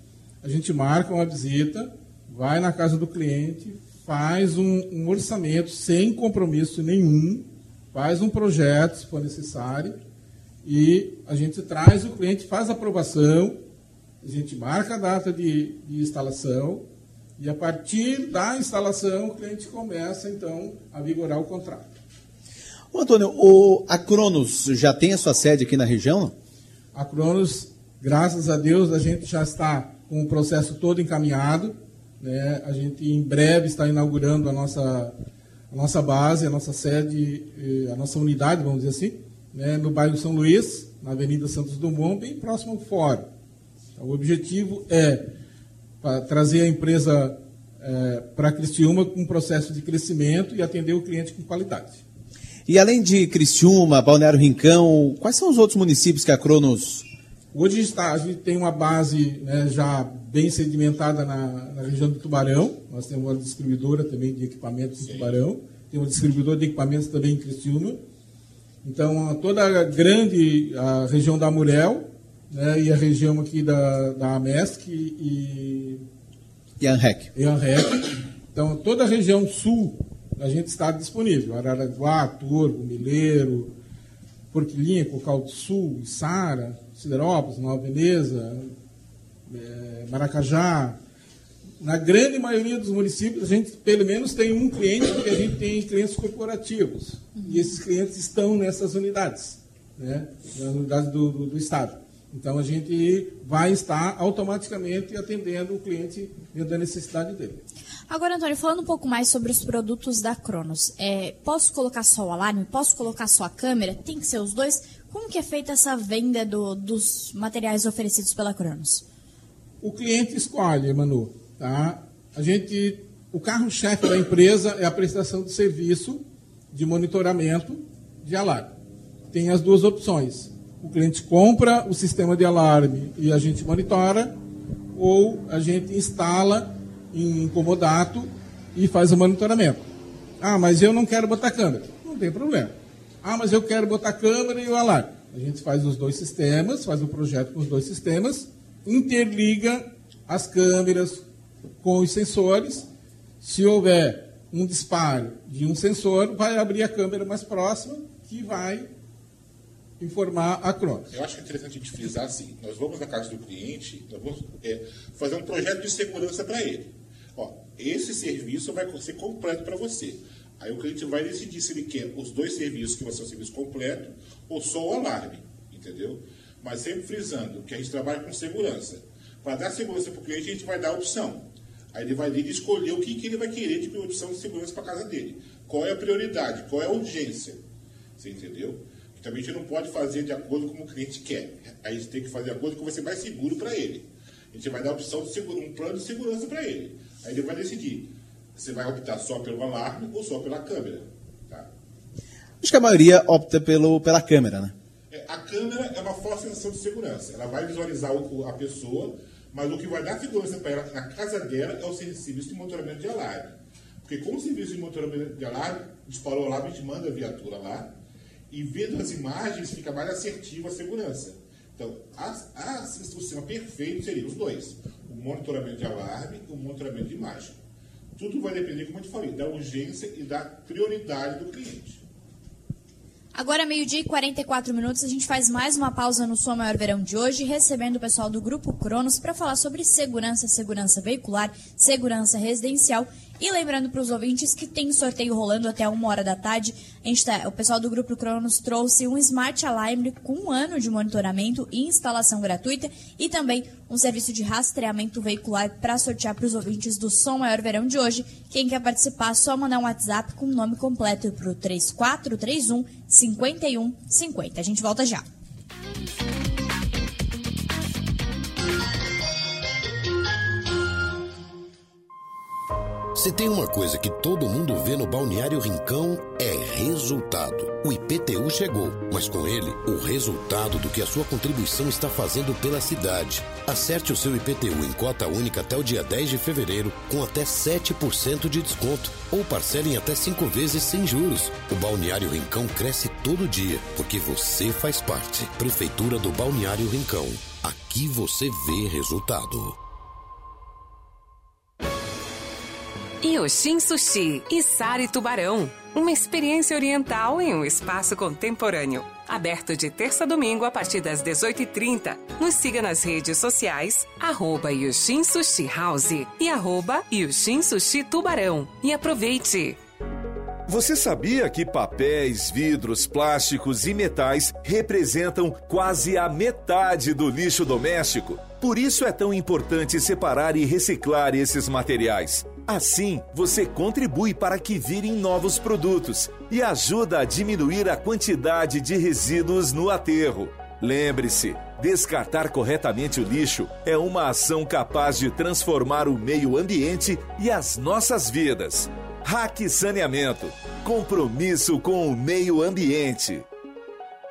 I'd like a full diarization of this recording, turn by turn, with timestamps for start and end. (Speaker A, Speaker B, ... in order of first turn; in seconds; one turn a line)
Speaker A: 0.4-10.0
Speaker A: 10.6-13.6
Speaker A: 14.2-16.9
Speaker A: 17.4-21.9
Speaker B: 22.9-26.3
Speaker A: 26.9-35.1
Speaker A: 35.7-43.3
Speaker A: 44.0-45.3
Speaker A: 46.0-52.0
Speaker B: 52.7-57.1
Speaker A: 57.5-68.0
Speaker C: 65.0-65.4
Speaker A: 68.8-76.0
Speaker B: 76.8-77.3
Speaker A: 77.3-83.7
Speaker A: 84.5-88.7
Speaker A: 89.5-91.0
Speaker A: 91.8-107.6
Speaker D: 97.3-97.7
Speaker D: 108.1-119.0
Speaker A: 119.8-128.7
Speaker A: 129.3-134.3
Speaker A: 134.9-139.9
Speaker A: 140.4-151.2
Speaker A: 151.8-152.9
Speaker A: 153.4-158.9
Speaker A: 160.0-161.1
Speaker C: 161.1-187.6
Speaker C: 188.2-201.7
Speaker B: 202.6-204.7
Speaker C: 205.1-217.9
Speaker C: 218.5-227.5
Speaker C: 228.2-232.0
Speaker D: 233.3-265.2
Speaker E: 273.1-299.8
Speaker F: 303.2-319.8
Speaker G: 320.7-353.4